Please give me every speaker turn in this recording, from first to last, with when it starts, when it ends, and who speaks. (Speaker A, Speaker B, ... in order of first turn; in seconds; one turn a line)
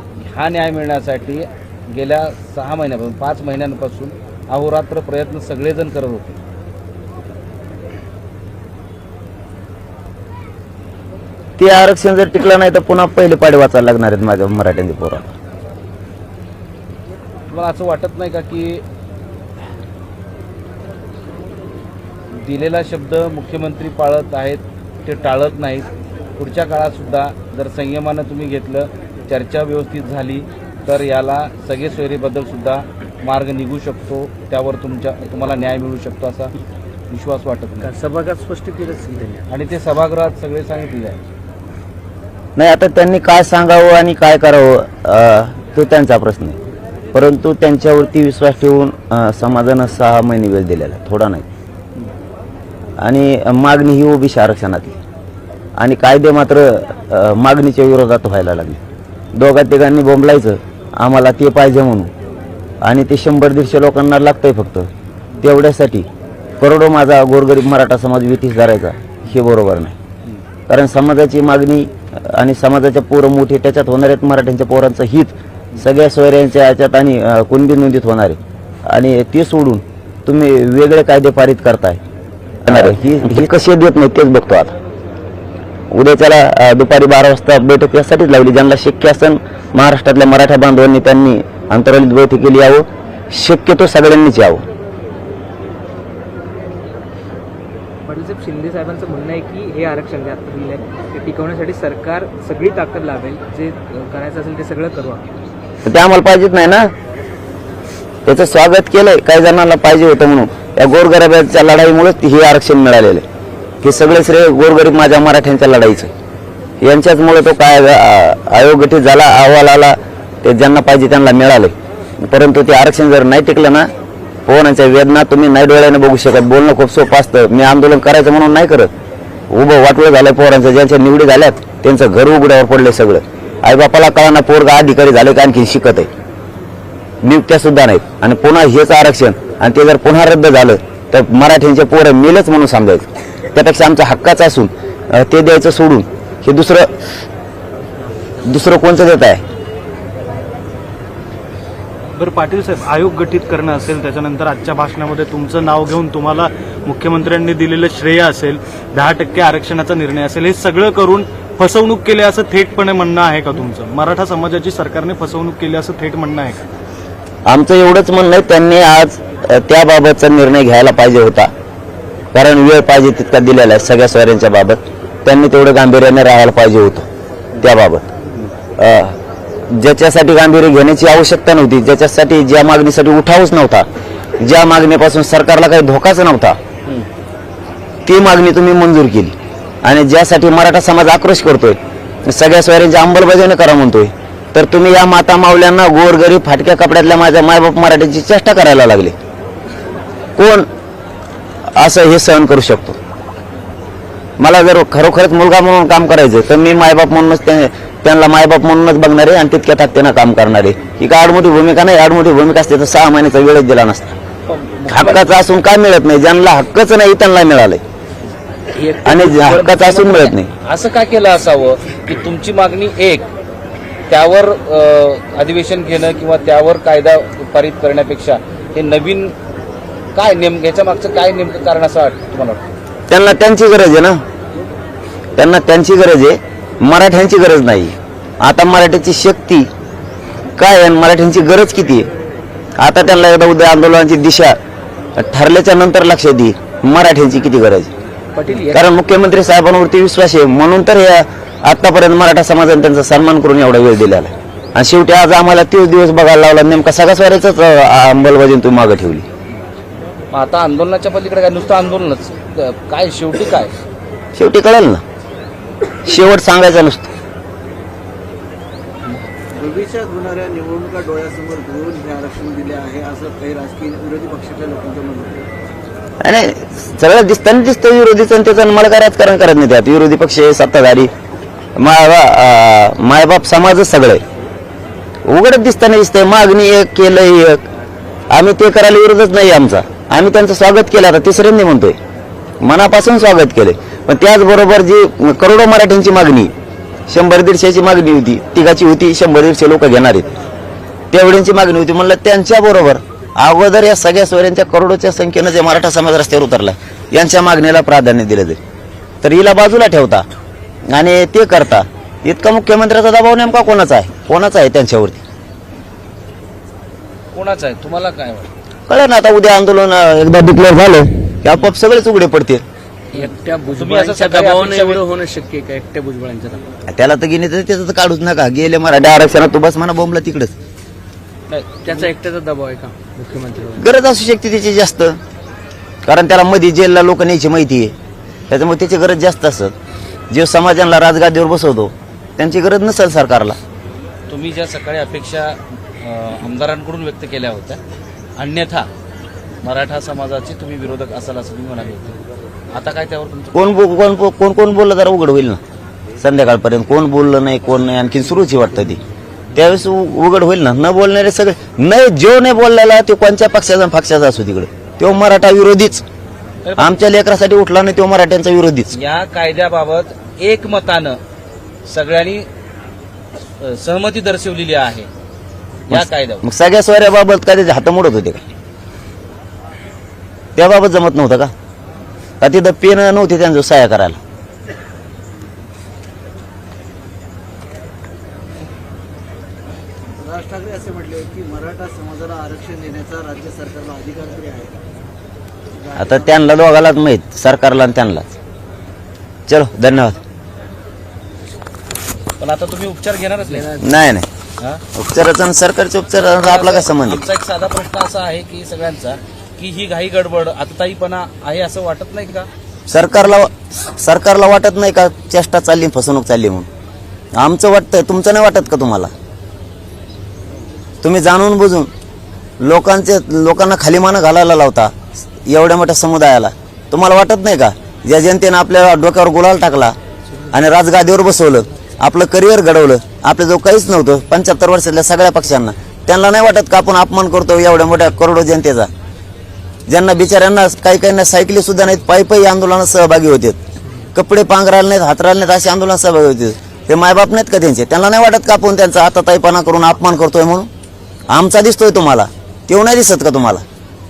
Speaker A: 0.1-6.4
Speaker B: 11.6-15.3
Speaker A: 17.5-18.8
Speaker A: 22.3-36.5
Speaker A: 37.1-37.9
Speaker C: 37.8-39.5
Speaker A: 39.5-41.2
Speaker B: 42.6-46.6
Speaker B: 47.1-51.5
Speaker B: 53.0-55.0
Speaker B: 55.8-58.8
Speaker B: 59.4-62.1
Speaker B: 62.8-64.9
Speaker B: 65.4-66.1
Speaker B: 66.6-70.0
Speaker B: 70.7-82.0
Speaker B: 82.7-84.8
Speaker B: 85.9-94.6
Speaker D: 98.1-105.3
Speaker B: 105.8-106.9
Speaker B: 108.2-113.2
Speaker B: 113.8-116.1
Speaker B: 116.8-123.9
Speaker B: 124.5-128.9
Speaker B: 129.5-136.1
Speaker B: 137.2-146.9
Speaker B: 148.4-149.4
Speaker E: 152.2-166.6
Speaker B: 167.5-171.5
Speaker B: 172.3-177.1
Speaker B: 177.6-178.1
Speaker B: 178.8-179.2
Speaker B: 179.7-183.9
Speaker B: 184.4-186.6
Speaker B: 188.1-199.2
Speaker B: 200.4-200.7
Speaker B: 201.7-203.0
Speaker B: 204.4-214.2
Speaker A: 214.5-215.3
Speaker B: 214.9-217.8
Speaker A: 218.8-223.3
Speaker B: 219.1-220.5
Speaker A: 224.1-229.3
Speaker A: 230.2-232.6
Speaker B: 233.1-234.2
Speaker B: 235.4-239.7
Speaker B: 240.6-242.1
Speaker B: 242.8-244.6
Speaker B: 245.2-247.9
Speaker C: 248.3-248.9
Speaker B: 248.7-259.3
Speaker A: 260.3-263.7
Speaker B: 264.4-265.0
Speaker B: 266.0-267.1
Speaker F: 269.6-275.4
Speaker B: 276.2-281.1
Speaker B: 281.8-284.2
Speaker B: 285.3-287.6
Speaker B: 288.3-292.0
Speaker B: 292.6-296.5
Speaker B: 297.1-300.3
Speaker B: 301.1-308.6
Speaker B: 309.2-310.3
Speaker B: 310.9-315.2
Speaker A: 317.3-318.5
Speaker B: 318.9-322.6
Speaker C: 323.1-326.7
Speaker A: 323.1-325.1
Speaker B: 326.9-330.5
Speaker C: 331.5-333.9
Speaker B: 333.8-335.2
Speaker B: 336.1-337.9
Speaker B: 338.5-339.7
Speaker B: 340.3-343.6
Speaker A: 344.3-347.8
Speaker A: 348.4-348.9
Speaker A: 349.6-352.2
Speaker A: 352.7-353.5
Speaker B: 353.5-355.6
Speaker B: 356.2-359.0
Speaker B: 359.6-366.1
Speaker A: 366.6-367.0
Speaker B: 366.8-369.0
Speaker A: 368.9-371.2
Speaker A: 371.9-372.5
Speaker A: 373.6-375.1
Speaker A: 375.9-376.4
Speaker B: 375.9-378.4
Speaker B: 380.6-381.5
Speaker B: 382.4-384.2
Speaker F: 390.2-394.8
Speaker F: 395.7-396.4
Speaker B: 396.0-398.3
Speaker B: 399.5-400.2
Speaker A: 402.4-403.7
Speaker C: 403.5-403.8
Speaker B: 403.8-404.3
Speaker B: 404.9-407.3
Speaker A: 406.4-412.5
Speaker B: 412.9-416.7
Speaker B: 417.4-419.1
Speaker B: 421.0-421.9
Speaker B: 422.6-430.0
Speaker B: 430.5-438.9
Speaker B: 439.9-443.6
Speaker B: 444.1-450.7
Speaker B: 451.3-453.6